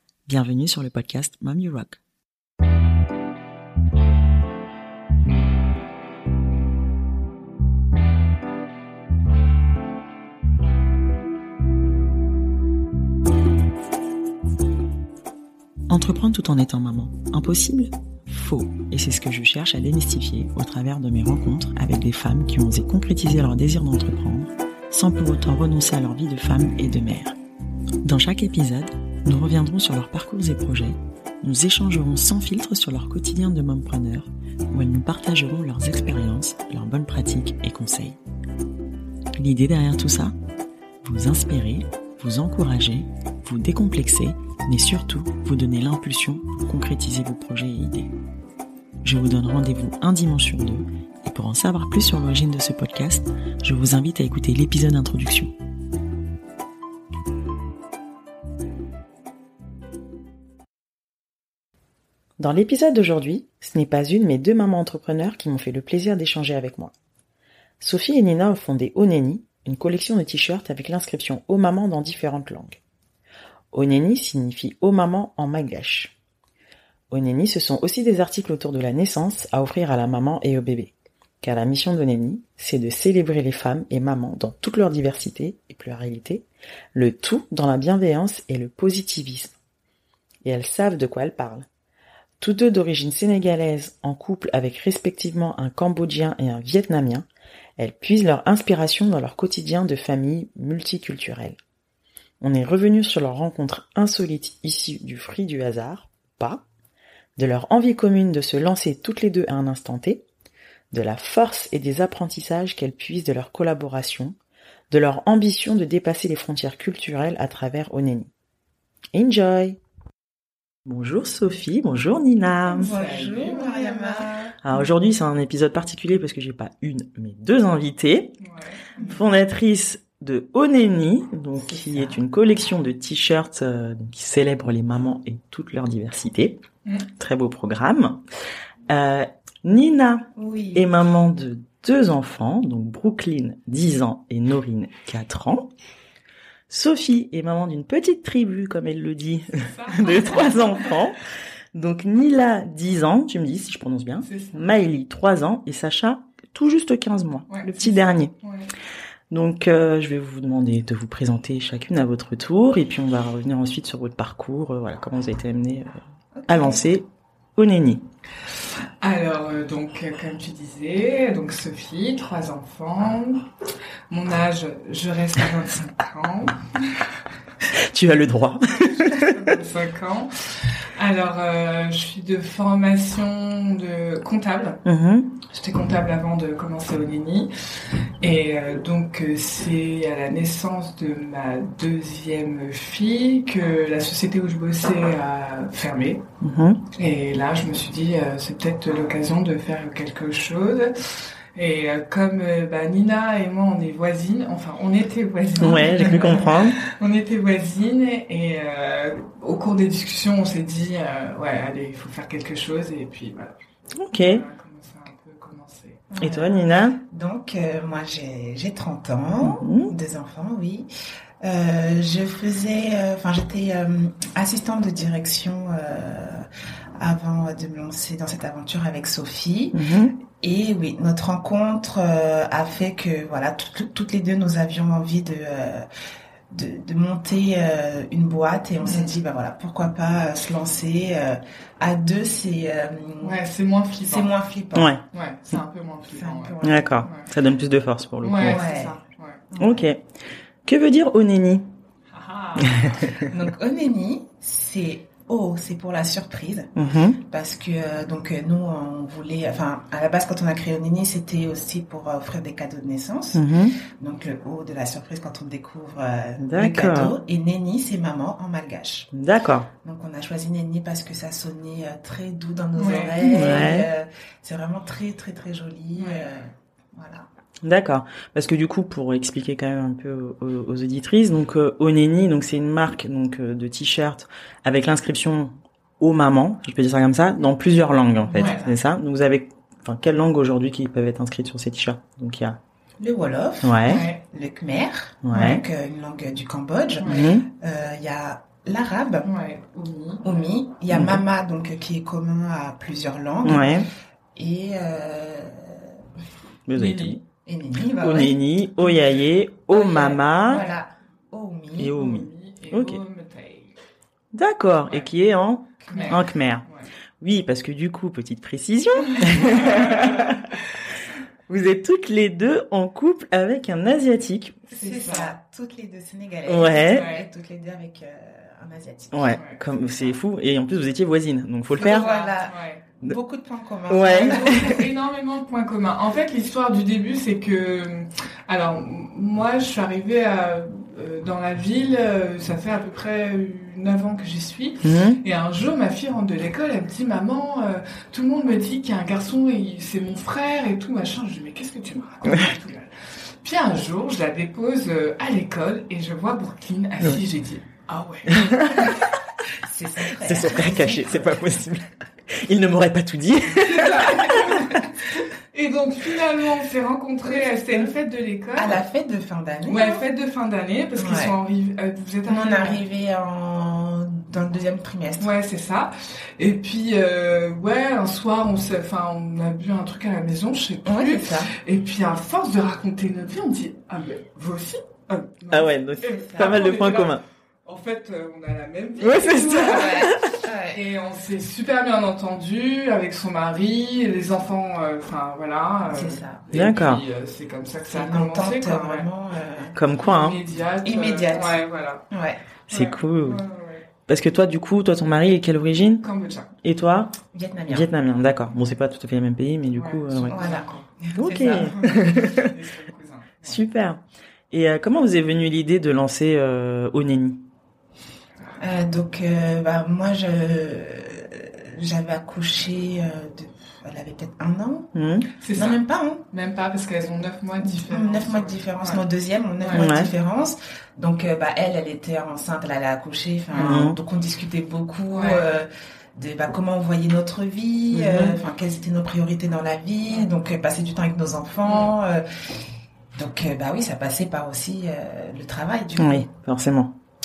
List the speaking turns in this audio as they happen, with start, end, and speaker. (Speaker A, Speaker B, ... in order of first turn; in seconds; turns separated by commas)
Speaker A: 0.3-2.0, Speaker A: 15.9-27.4, Speaker A: 28.0-38.2, Speaker A: 39.4-40.4, Speaker A: 41.0-48.1, Speaker A: 49.0-55.5, Speaker A: 62.4-66.9, Speaker A: 67.8-72.8, Speaker A: 73.7-76.1, Speaker A: 77.1-89.5, Speaker A: 90.5-91.7, Speaker A: 92.4-101.6, Speaker A: 102.4-106.6, Speaker A: 107.4-110.2, Speaker A: 110.9-114.3, Speaker A: 114.9-118.3, Speaker A: 119.1-119.8, Speaker A: 120.8-122.9, Speaker B: 122.7-124.8, Speaker C: 122.7-124.4, Speaker A: 124.6-128.4, Speaker C: 128.4-128.9, Speaker B: 129.0-129.2, Speaker A: 129.0-136.6, Speaker B: 131.5-132.2, Speaker A: 137.2-138.2, Speaker A: 138.9-145.7, Speaker B: 140.4-140.9, Speaker A: 146.7-151.2, Speaker C: 149.6-150.9, Speaker A: 151.7-158.3, Speaker C: 154.2-154.6, Speaker C: 157.5-158.7, Speaker A: 159.3-168.1, Speaker B: 166.3-166.8, Speaker C: 169.0-173.5, Speaker C: 174.1-176.6, Speaker A: 177.7-179.6, Speaker C: 178.7-184.8, Speaker A: 184.8-185.3, Speaker C: 185.4-187.5, Speaker C: 188.2-196.3, Speaker A: 196.4-196.8, Speaker C: 196.9-200.9, Speaker C: 201.6-213.5, Speaker A: 205.6-206.8, Speaker A: 214.0-214.4, Speaker C: 214.1-216.1, Speaker B: 216.1-220.9, Speaker A: 216.2-217.0, Speaker A: 219.4-219.9, Speaker B: 221.4-235.9, Speaker A: 229.7-230.2, Speaker B: 236.5-243.4, Speaker C: 238.9-239.1, Speaker C: 243.2-244.3, Speaker B: 244.0-245.0, Speaker A: 244.8-245.0, Speaker C: 245.1-247.3, Speaker B: 246.1-247.0, Speaker A: 246.6-248.6, Speaker C: 248.2-249.5, Speaker B: 248.4-249.0, Speaker B: 249.5-249.8, Speaker A: 249.6-250.0, Speaker A: 250.7-251.7, Speaker C: 252.1-253.2, Speaker A: 252.6-253.2, Speaker B: 253.3-269.1, Speaker A: 256.8-257.2, Speaker A: 263.4-263.8, Speaker A: 266.4-267.1, Speaker A: 269.1-269.7, Speaker B: 269.8-277.3, Speaker C: 272.8-273.2, Speaker A: 273.2-273.9, Speaker C: 276.0-276.3, Speaker A: 277.6-292.6, Speaker B: 288.2-288.8, Speaker C: 288.4-288.7, Speaker B: 293.0-299.3, Speaker A: 293.6-294.1, Speaker C: 293.9-294.2, Speaker A: 295.2-295.6, Speaker C: 297.0-297.3, Speaker A: 297.1-297.5, Speaker C: 299.2-300.3, Speaker B: 300.2-306.0, Speaker A: 300.9-301.2, Speaker A: 303.4-303.9, Speaker A: 306.7-307.2, Speaker C: 306.8-307.2, Speaker B: 307.4-308.4, Speaker A: 307.9-310.7, Speaker B: 309.7-312.0, Speaker C: 309.9-310.8, Speaker A: 311.8-313.0, Speaker C: 311.9-313.8, Speaker A: 314.3-316.7, Speaker B: 315.8-316.2, Speaker C: 315.9-316.9, Speaker A: 317.2-320.5, Speaker C: 319.2-320.4, Speaker A: 321.5-324.7, Speaker C: 324.7-325.3, Speaker B: 324.7-329.3, Speaker A: 326.5-327.1, Speaker C: 326.8-327.3, Speaker A: 329.1-332.1, Speaker C: 329.3-329.6, Speaker B: 331.8-334.8, Speaker C: 331.8-332.8, Speaker A: 333.9-334.9, Speaker C: 334.1-352.9, Speaker A: 344.8-345.2, Speaker C: 353.4-359.1, Speaker A: 358.3-359.0, Speaker B: 359.6-361.4, Speaker A: 360.2-364.8, Speaker C: 363.5-365.0, Speaker C: 365.5-368.8, Speaker B: 367.3-367.9, Speaker B: 368.6-370.1, Speaker C: 369.7-372.8, Speaker B: 370.9-371.4, Speaker B: 372.3-375.3, Speaker C: 375.2-399.1, Speaker B: 380.9-381.5, Speaker A: 385.5-387.2, Speaker B: 386.3-386.6, Speaker A: 389.0-390.3, Speaker B: 389.3-390.8, Speaker B: 395.9-396.4, Speaker A: 396.5-397.0, Speaker B: 397.9-399.8, Speaker A: 399.8-400.4, Speaker C: 400.0-402.1, Speaker B: 400.8-402.4, Speaker C: 402.7-403.9, Speaker A: 402.7-403.4, Speaker A: 404.1-406.1, Speaker C: 406.0-406.5, Speaker A: 406.6-407.2, Speaker B: 407.3-407.9, Speaker A: 407.7-410.5, Speaker C: 409.7-410.9, Speaker B: 410.3-411.9, Speaker A: 411.2-412.5, Speaker C: 411.9-413.6, Speaker A: 413.4-414.0, Speaker A: 414.5-417.5, Speaker B: 418.6-424.9, Speaker A: 424.9-425.3, Speaker C: 425.4-429.0, Speaker B: 425.6-426.2, Speaker B: 427.6-442.5, Speaker C: 429.6-429.9, Speaker A: 429.7-430.1, Speaker C: 433.5-433.8, Speaker A: 433.6-434.0, Speaker C: 435.1-435.4, Speaker A: 437.9-438.4, Speaker C: 441.7-441.9, Speaker B: 443.1-446.3, Speaker A: 446.0-447.0